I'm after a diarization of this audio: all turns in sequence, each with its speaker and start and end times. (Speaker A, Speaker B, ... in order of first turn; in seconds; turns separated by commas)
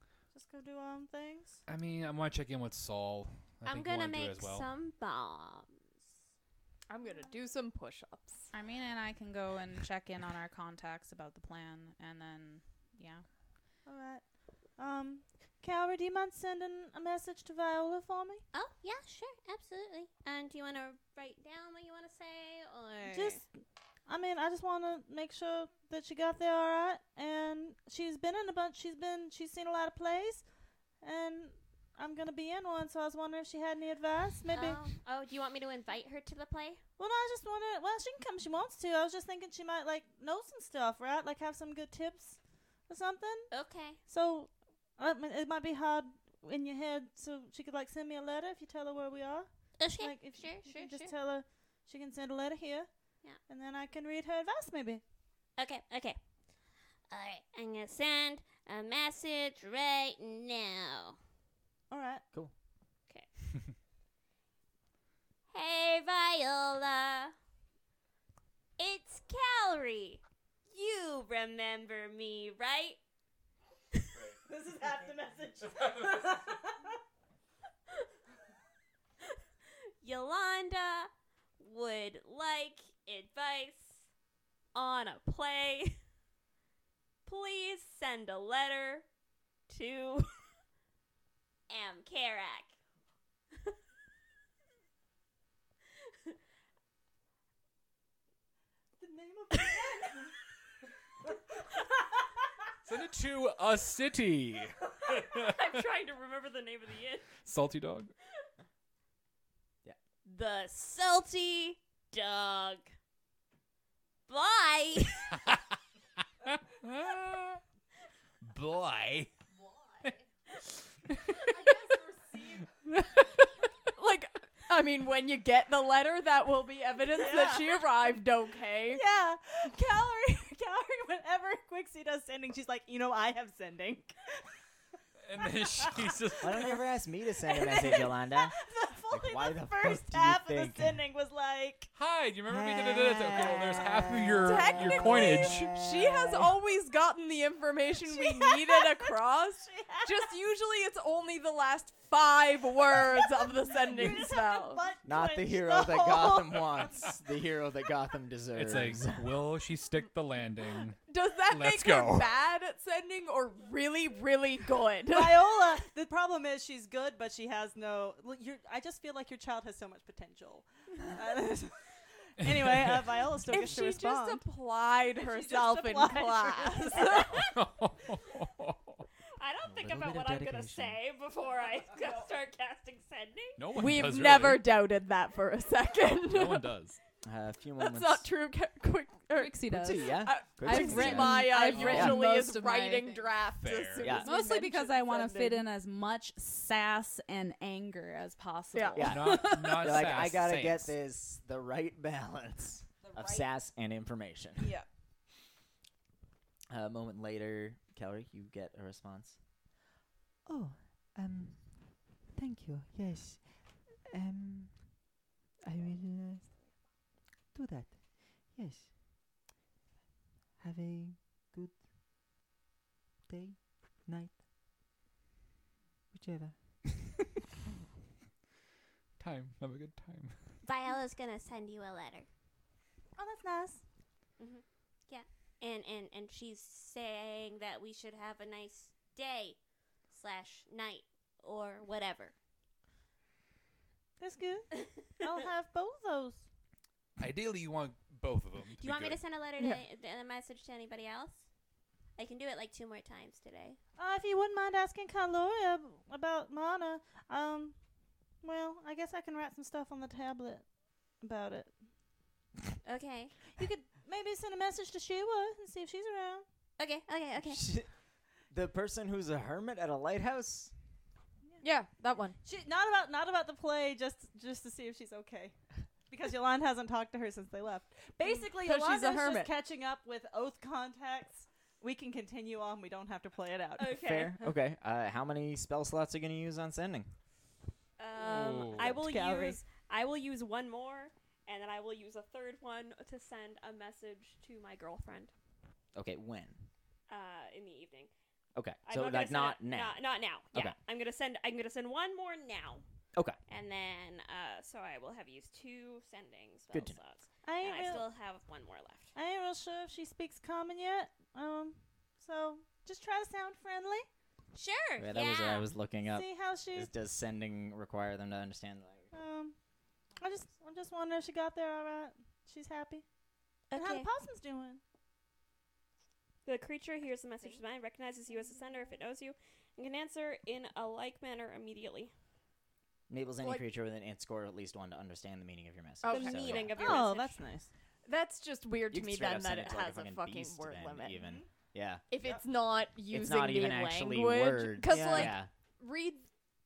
Speaker A: 0.3-1.6, Speaker B: 1.7-4.7, Speaker C: 3.6-5.8, Speaker D: 6.9-8.5, Speaker E: 8.5-13.2, Speaker A: 13.9-18.4, Speaker C: 18.5-23.4, Speaker A: 23.1-23.5, Speaker A: 24.1-30.4, Speaker A: 31.0-34.8, Speaker C: 34.5-36.8, Speaker A: 37.0-43.5, Speaker C: 43.5-44.0, Speaker A: 44.0-52.9, Speaker C: 49.8-51.1, Speaker A: 53.5-55.0, Speaker C: 55.6-56.2, Speaker C: 57.1-61.2, Speaker A: 61.9-62.2, Speaker C: 65.5-67.3, Speaker C: 68.8-73.0, Speaker C: 73.9-74.2, Speaker A: 74.5-77.0, Speaker C: 80.0-84.1, Speaker C: 84.7-86.0, Speaker C: 87.3-89.0, Speaker C: 89.7-90.3, Speaker C: 91.7-92.8, Speaker A: 99.0-100.3, Speaker B: 102.8-105.8, Speaker C: 105.3-107.4, Speaker B: 107.4-108.1, Speaker C: 110.2-112.9, Speaker C: 114.3-115.4, Speaker B: 116.5-117.6, Speaker B: 118.5-119.3, Speaker B: 121.1-121.5, Speaker A: 121.9-122.6, Speaker B: 122.8-123.7, Speaker D: 124.0-129.0, Speaker A: 127.1-127.9, Speaker A: 128.9-134.2, Speaker B: 135.3-136.6, Speaker A: 135.4-136.7, Speaker F: 136.4-138.6, Speaker A: 137.4-141.9, Speaker F: 139.1-141.0, Speaker B: 141.9-145.8, Speaker D: 142.7-143.8, Speaker A: 143.2-143.8, Speaker D: 144.3-154.9, Speaker F: 145.9-146.5, Speaker A: 148.1-149.0, Speaker A: 149.6-150.3, Speaker A: 153.2-157.1, Speaker F: 155.0-159.4, Speaker B: 158.5-162.3, Speaker D: 161.0-165.8, Speaker A: 165.1-174.4, Speaker B: 172.4-173.7, Speaker D: 173.5-177.1, Speaker A: 175.1-177.5, Speaker C: 176.9-177.5, Speaker B: 177.3-179.0, Speaker C: 179.4-183.6, Speaker F: 179.6-181.0, Speaker B: 183.6-184.7, Speaker D: 183.7-186.7, Speaker B: 186.2-187.0, Speaker F: 187.2-188.3, Speaker D: 187.8-195.7, Speaker E: 189.3-193.3, Speaker F: 189.7-192.2, Speaker B: 191.7-192.2, Speaker B: 193.6-194.2, Speaker F: 194.0-194.3, Speaker E: 194.2-200.1, Speaker D: 198.7-199.3, Speaker F: 198.9-204.8, Speaker B: 199.0-200.9, Speaker F: 206.7-209.4, Speaker F: 210.4-213.5, Speaker F: 214.1-215.0, Speaker F: 215.6-216.5, Speaker F: 217.5-219.0, Speaker F: 220.6-221.8, Speaker F: 223.3-224.4, Speaker F: 226.1-226.8, Speaker B: 229.2-230.6, Speaker C: 230.6-232.3, Speaker A: 233.2-233.8, Speaker C: 234.4-239.6, Speaker C: 240.1-242.3, Speaker A: 244.2-246.5, Speaker B: 247.2-249.2, Speaker C: 248.8-251.4, Speaker D: 249.6-249.8, Speaker C: 252.2-253.8, Speaker A: 254.0-257.8, Speaker A: 258.4-261.7, Speaker C: 262.8-263.4, Speaker A: 263.6-266.4, Speaker C: 266.8-267.7, Speaker F: 267.4-267.9, Speaker F: 268.5-270.7, Speaker D: 271.6-272.4, Speaker A: 272.4-275.6, Speaker A: 276.1-284.2, Speaker D: 278.6-279.5, Speaker C: 283.8-284.4, Speaker F: 283.9-287.1, Speaker C: 288.0-295.3, Speaker B: 288.2-289.0, Speaker A: 288.8-289.6, Speaker F: 295.9-296.7, Speaker C: 297.1-298.1, Speaker F: 298.6-300.0, Speaker C: 298.9-302.8, Speaker C: 303.5-309.1, Speaker F: 306.7-307.0, Speaker A: 307.4-308.1, Speaker A: 309.1-314.1, Speaker C: 314.6-315.7, Speaker F: 315.0-319.1, Speaker A: 316.1-316.9, Speaker A: 319.1-319.6, Speaker A: 320.1-323.1, Speaker C: 323.7-324.1, Speaker A: 323.7-324.8, Speaker C: 326.4-332.1, Speaker F: 333.1-337.0, Speaker D: 336.0-336.4, Speaker C: 336.1-337.4, Speaker A: 336.7-337.7, Speaker D: 338.1-341.2, Speaker F: 338.9-342.1, Speaker A: 341.2-341.5, Speaker D: 342.1-346.3, Speaker A: 342.2-342.4, Speaker F: 343.1-345.5